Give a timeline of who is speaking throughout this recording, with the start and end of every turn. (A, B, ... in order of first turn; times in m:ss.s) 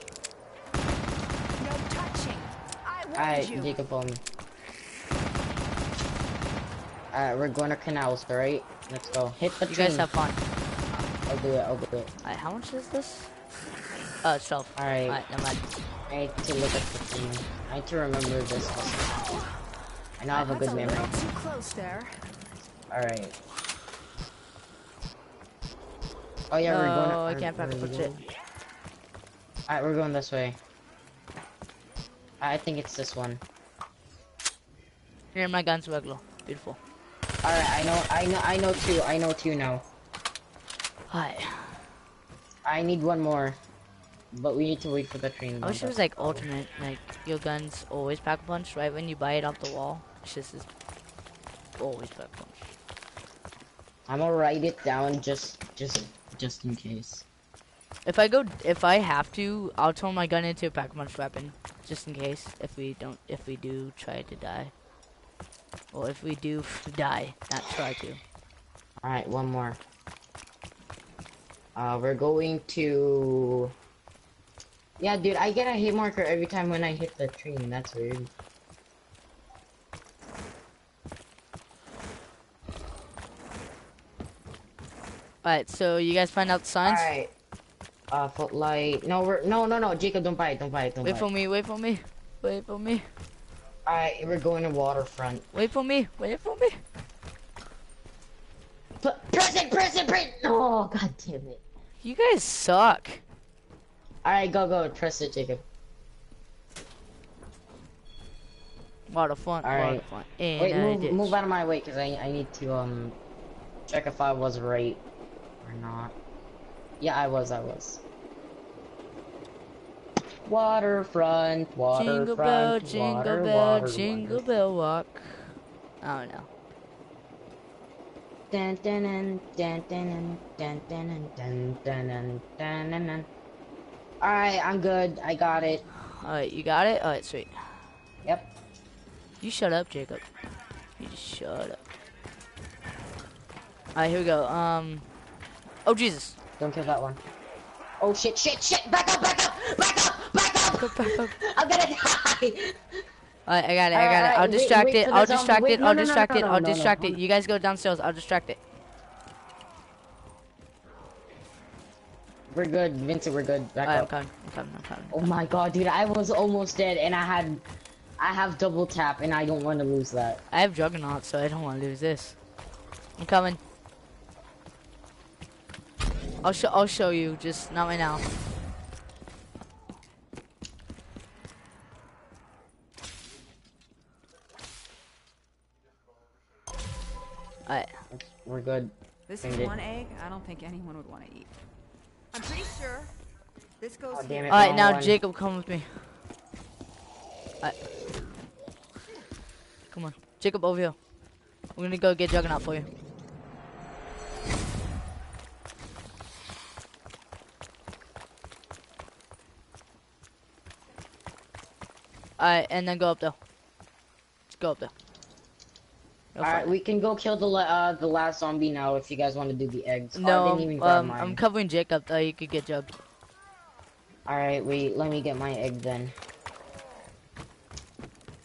0:01.6-0:03.8 A
0:03.1-0:04.2 B
0:07.1-0:10.1 B
0:09.7-0:10.4 C
0:11.2-0:12.1 B
0:12.2-0:13.3 C
0:14.2-0:15.7 C
0:14.8-0:15.2 B
0:16.1-0:19.2 B
0:20.2-0:21.2 B
0:20.3-0:22.1 A
0:22.9-0:23.3 B
0:26.5-0:28.2 B
0:26.6-0:28.1 C
0:29.7-0:30.6 B
0:32.4-0:33.4 B
0:35.3-0:36.8 C
0:37.4-0:39.8 B
0:41.1-0:41.8 C
0:42.6-0:43.6 B
0:44.3-0:46.5 B
0:45.6-0:50.7 C
0:51.8-0:52.7 C
0:54.1-0:57.2 B
0:58.0-1:04.7 C
1:05.9-1:08.2 C
1:09.0-1:09.8 B
1:11.8-1:13.7 B
1:15.0-1:18.3 B
1:25.4-1:27.1 C
1:26.8-1:27.3 B
1:28.1-1:31.3 B
1:31.0-1:33.1 C
1:33.8-1:35.4 B
1:35.5-1:36.8 C
1:39.0-1:41.6 B
1:42.0-1:43.2 C
1:44.2-1:45.6 B
1:49.1-1:51.3 C
1:49.6-1:50.0 B
1:50.6-1:53.2 B
1:53.9-1:55.0 B
1:55.6-1:56.1 B
1:57.0-1:58.0 B
2:00.4-2:04.5 B
2:01.9-2:06.5 C
2:08.5-2:13.3 B
2:14.2-2:15.8 B
2:16.0-2:17.5 C
2:18.2-2:18.5 B
2:19.4-2:20.2 C
2:21.0-2:21.8 C
2:24.0-2:25.0 C
2:25.8-2:26.4 C
2:26.6-2:27.2 B
2:28.0-2:32.8 B
2:30.7-2:31.3 C
2:33.5-2:38.6 C
2:33.9-2:37.2 B
2:42.5-2:44.1 B
2:43.8-2:45.2 C
2:45.1-2:47.6 B
2:48.2-2:50.4 B
2:50.5-2:52.4 C
2:53.2-2:53.6 C
2:56.4-2:58.2 C
3:07.6-3:07.9 C
3:08.1-3:09.7 B
3:09.3-3:11.5 A
3:12.3-3:13.1 A
3:13.8-3:14.7 A
3:14.1-3:15.2 B
3:14.5-3:16.0 C
3:19.9-3:21.0 C
3:21.8-3:22.9 C
3:32.4-3:33.4 C
3:34.6-3:34.9 C
3:36.3-3:36.7 C
3:36.4-3:41.4 B
3:40.2-3:43.0 C
3:44.3-3:46.1 B